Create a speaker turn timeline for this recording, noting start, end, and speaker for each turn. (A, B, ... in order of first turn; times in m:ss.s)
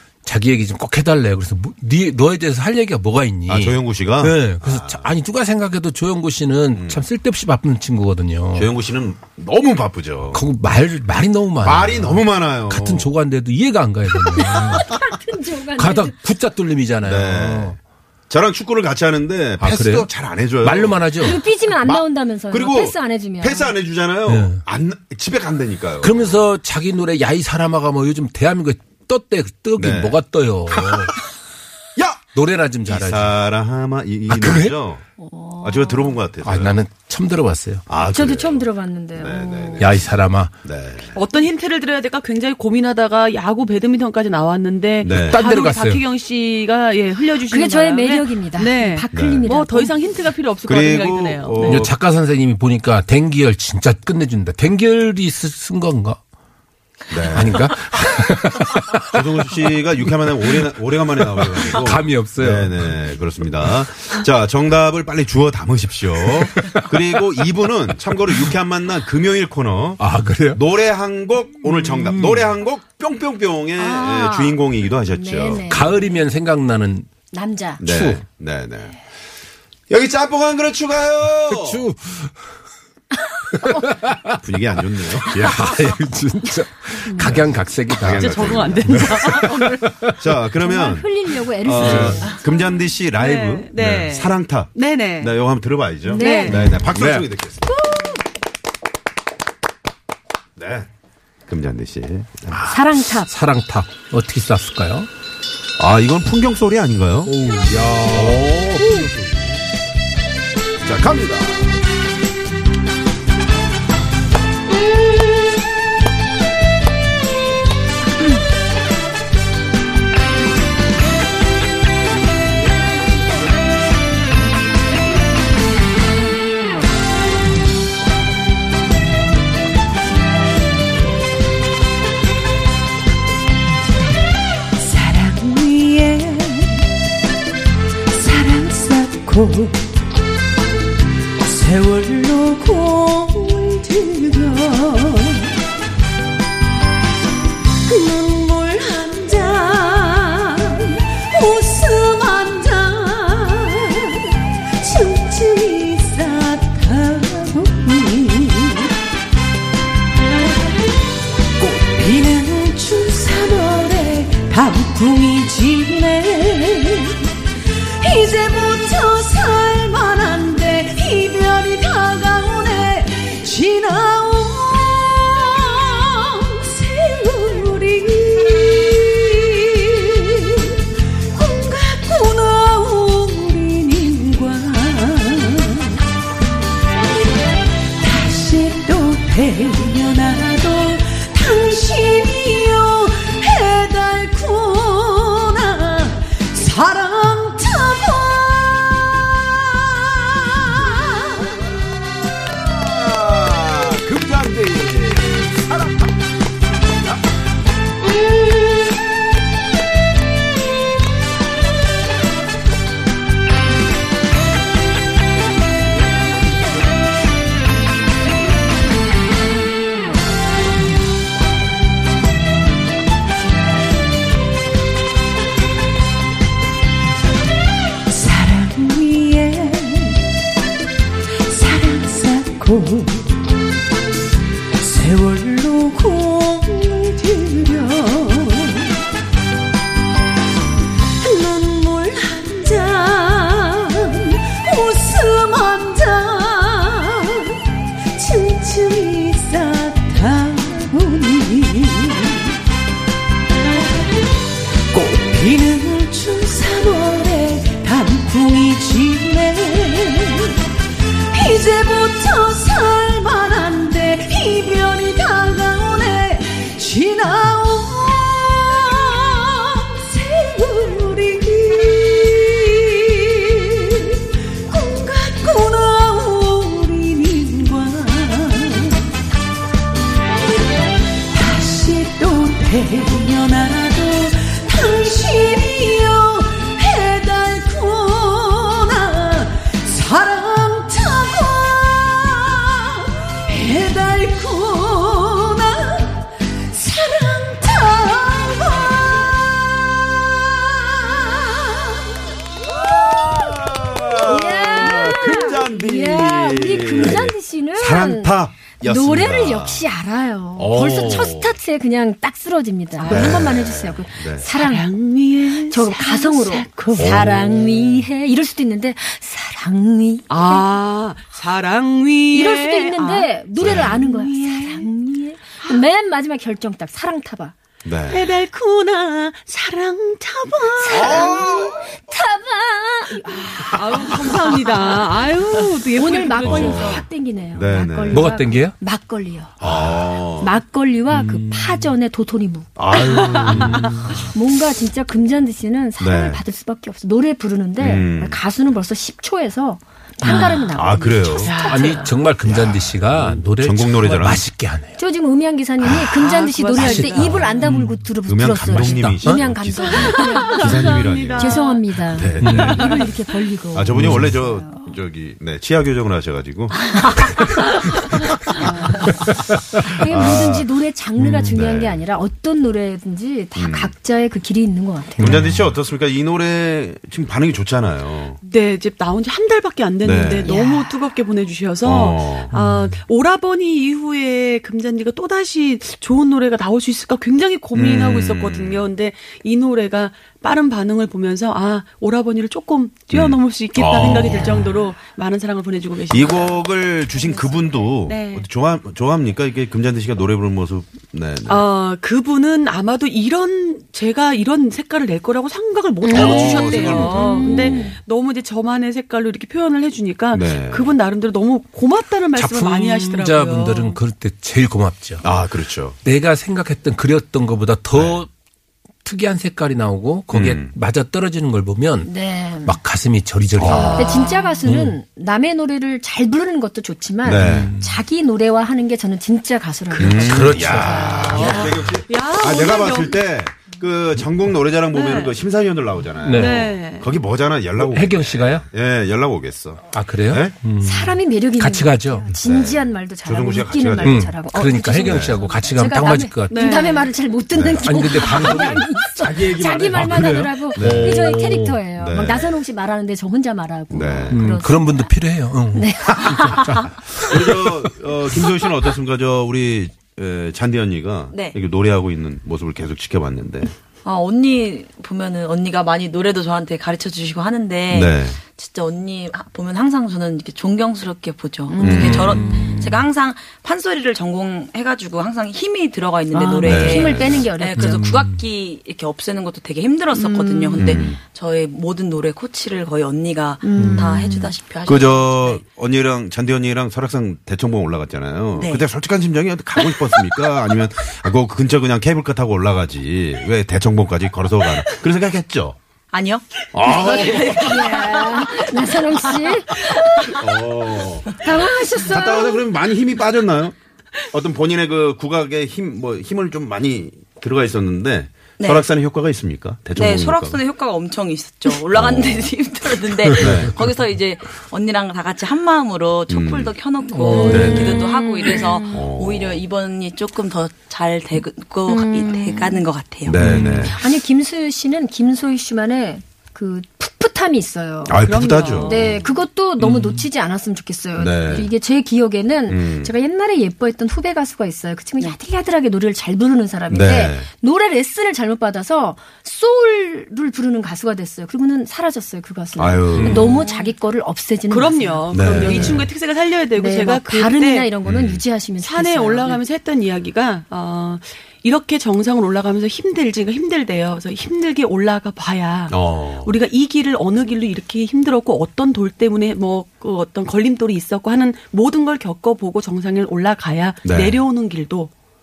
0:00.3-0:08.7 A
0:03.5-0:05.1 B
0:06.8-0:07.1 B
0:08.6-0:10.4 B
0:10.3-0:15.1 A
0:11.6-0:13.1 B
0:14.2-0:16.2 C
0:15.7-0:17.8 A
0:17.0-0:17.8 B
0:18.3-0:21.3 B
0:19.6-0:20.1 A
0:20.6-0:21.4 A
0:21.2-0:23.7 C
0:21.8-0:26.4 B
0:24.3-0:24.6 A
0:26.0-0:31.1 A
0:29.8-0:30.2 B
0:30.7-0:31.1 B
0:32.0-0:32.2 B
0:32.3-0:33.4 A
0:32.9-0:35.0 B
0:34.3-0:34.8 A
0:35.2-0:36.2 C
0:35.6-0:36.7 B
0:36.4-0:37.8 A
0:37.9-0:40.0 B
0:38.1-0:39.9 C
0:39.8-0:40.5 A
0:40.6-0:41.2 B
0:41.1-0:51.8 D
0:45.0-0:45.5 B
0:45.2-0:46.0 A
0:47.4-0:50.0 C
0:49.1-0:49.5 B
0:50.6-0:52.0 B
0:51.6-0:56.2 A
0:57.1-0:57.7 B
0:57.3-0:59.2 A
0:59.1-1:15.7 B
1:01.4-1:02.8 A
1:06.3-1:06.9 A
1:10.0-1:10.6 A
1:11.6-1:12.5 A
1:13.8-1:16.2 C
1:15.7-1:17.1 A
1:17.3-1:17.8 C
1:17.8-1:19.0 B
1:17.8-1:18.2 A
1:19.9-1:21.8 B
1:21.5-1:22.3 A
1:23.5-1:24.4 A
1:24.4-1:25.6 B
1:25.2-1:30.2 A
1:27.0-1:27.4 C
1:28.0-1:29.4 B
1:28.2-1:29.8 D
1:30.1-1:37.9 B
1:30.6-1:32.8 C
1:31.8-1:32.2 A
1:33.2-1:35.4 D
1:36.1-1:36.6 C
1:36.2-1:36.6 D
1:36.9-1:37.3 A
1:37.9-1:38.2 D
1:40.6-1:40.9 B
1:41.5-1:42.6 B
1:42.6-1:45.1 A
1:42.7-1:43.3 C
1:45.8-1:47.3 B
1:47.2-1:49.1 A
1:47.9-1:49.7 B
1:50.8-1:51.8 B
2:14.8-2:16.9 E
2:18.1-2:19.9 E
2:21.4-2:25.6 E
2:27.9-2:38.9 E
2:41.6-2:47.3 E
2:48.0-3:00.8 E
3:01.3-3:06.0 E
3:08.0-3:18.9 E
3:20.8-3:26.1 B
3:48.1-3:50.3 E
3:51.5-3:53.4 E
3:54.8-3:58.9 E
4:01.2-4:07.6 E
4:08.1-4:12.6 E
4:14.9-4:20.6 E
4:21.3-4:39.0 E
4:41.3-4:59.2 E
5:00.8-5:01.9 E
5:02.6-5:09.9 B
5:04.2-5:14.9 C
5:10.6-5:11.6 B
5:13.0-5:13.5 D
5:13.1-5:14.5 B
5:14.6-5:15.9 D
5:15.7-5:20.7 C
5:16.0-5:17.1 E
5:17.0-5:18.0 B
5:20.3-5:24.8 D
5:22.3-5:27.5 C
5:23.6-5:24.0 B
5:27.8-5:28.3 B
5:28.1-5:31.4 D
5:30.8-5:34.1 C
5:30.9-5:32.0 B
5:33.3-5:37.0 D
5:36.0-5:39.6 C
5:36.4-5:38.3 B
5:38.1-5:38.8 A
5:39.6-5:40.6 B
5:40.4-5:43.4 C
5:41.1-5:41.9 A
5:42.8-5:44.0 B
5:43.1-5:43.7 D
5:43.5-5:44.1 A
5:44.3-5:51.5 C
5:46.0-5:46.4 B
5:47.8-5:48.4 B
5:50.2-5:50.6 A
5:50.7-5:51.6 B
5:51.4-5:52.1 D
5:51.6-5:55.0 A
5:52.4-5:54.5 B
5:55.0-6:04.9 C
5:55.8-5:56.3 B
5:56.2-5:57.5 D
5:56.7-5:58.0 A
5:58.2-6:03.1 B
5:58.8-5:59.5 A
5:59.9-6:01.9 D
6:02.4-6:02.8 A
6:02.5-6:03.1 D
6:03.7-6:07.5 B
6:03.9-6:04.4 A
6:08.6-6:09.1 D
6:09.9-6:15.4 C
6:10.0-6:10.7 B
6:11.2-6:12.0 B
6:13.6-6:13.9 B
6:15.2-6:15.7 A
6:15.2-6:18.4 B
6:18.5-6:36.6 D
6:20.0-6:20.5 B
6:20.5-6:20.9 C
6:21.8-6:22.5 B
6:22.5-6:23.0 A
6:27.7-6:28.9 B
6:33.1-6:34.6 B
6:36.1-6:41.7 B
6:38.1-6:38.5 D
6:41.5-6:54.0 D
6:46.0-6:47.9 C
6:46.1-6:48.0 B
6:50.3-6:50.9 B
6:52.4-6:55.2 A
6:55.2-6:56.0 B
6:56.0-6:58.3 A
6:57.9-6:58.2 B
6:59.0-7:02.1 A
7:00.3-7:00.7 B
7:02.0-7:02.8 C
7:02.6-7:05.0 A
7:03.6-7:04.1 B
7:03.7-7:04.6 D
7:03.8-7:11.5 C
7:07.2-7:07.7 B
7:07.4-7:08.0 A
7:10.0-7:20.6 B
7:10.0-7:12.0 A
7:11.2-7:13.2 D
7:14.9-7:15.4 D
7:16.2-7:16.8 A
7:16.3-7:17.1 D
7:17.8-7:18.6 A
7:19.9-7:22.3 A
7:20.8-7:35.1 C
7:22.4-7:24.3 B
7:24.0-7:27.0 A
7:25.0-7:25.6 B
7:26.5-7:27.1 D
7:27.5-7:28.5 B
7:27.8-7:31.8 A
7:29.3-7:30.2 B
7:30.8-7:32.6 B
7:33.9-7:34.4 B
7:34.3-7:37.7 A
7:35.7-7:36.9 C
7:37.2-7:43.7 B
7:41.3-7:41.6 F
7:44.0-8:05.6 F
7:47.9-7:48.4 B
7:51.7-7:52.1 C
7:51.8-7:52.4 B
7:51.9-7:52.9 A
7:56.3-7:58.1 C
7:56.6-7:57.4 B
7:57.8-7:58.4 A
8:00.2-8:01.0 D
8:00.8-8:01.2 B
8:03.6-8:04.5 C
8:04.9-8:15.8 B
8:08.6-8:08.8 F
8:16.1-8:20.4 F
8:16.7-8:17.8 B
8:16.9-8:20.1 C
8:20.3-8:23.8 B
8:21.4-8:22.6 C
8:24.3-8:30.6 B
8:28.6-8:28.9 F
8:30.0-8:43.4 F
8:31.9-8:32.5 B
8:33.4-8:33.8 B
8:36.3-8:36.8 B
8:37.1-8:38.0 A
8:37.5-8:38.0 B
8:38.9-8:39.6 B
8:41.9-8:42.8 C
8:43.3-8:44.0 B
8:43.4-8:43.9 A
8:43.8-9:06.1 C
8:48.0-8:49.2 B
8:48.2-8:49.2 D
8:49.8-8:50.2 A
8:51.2-8:51.7 B
8:52.7-8:53.1 B
8:56.9-8:57.5 B
9:02.8-9:03.6 B
9:03.2-9:03.5 A
9:03.4-9:03.9 D
9:04.7-9:07.9 D
9:05.3-9:06.1 B
9:06.8-9:09.6 C
9:08.0-9:08.4 B
9:08.8-9:25.1 D
9:15.9-9:16.5 B
9:24.0-9:24.4 B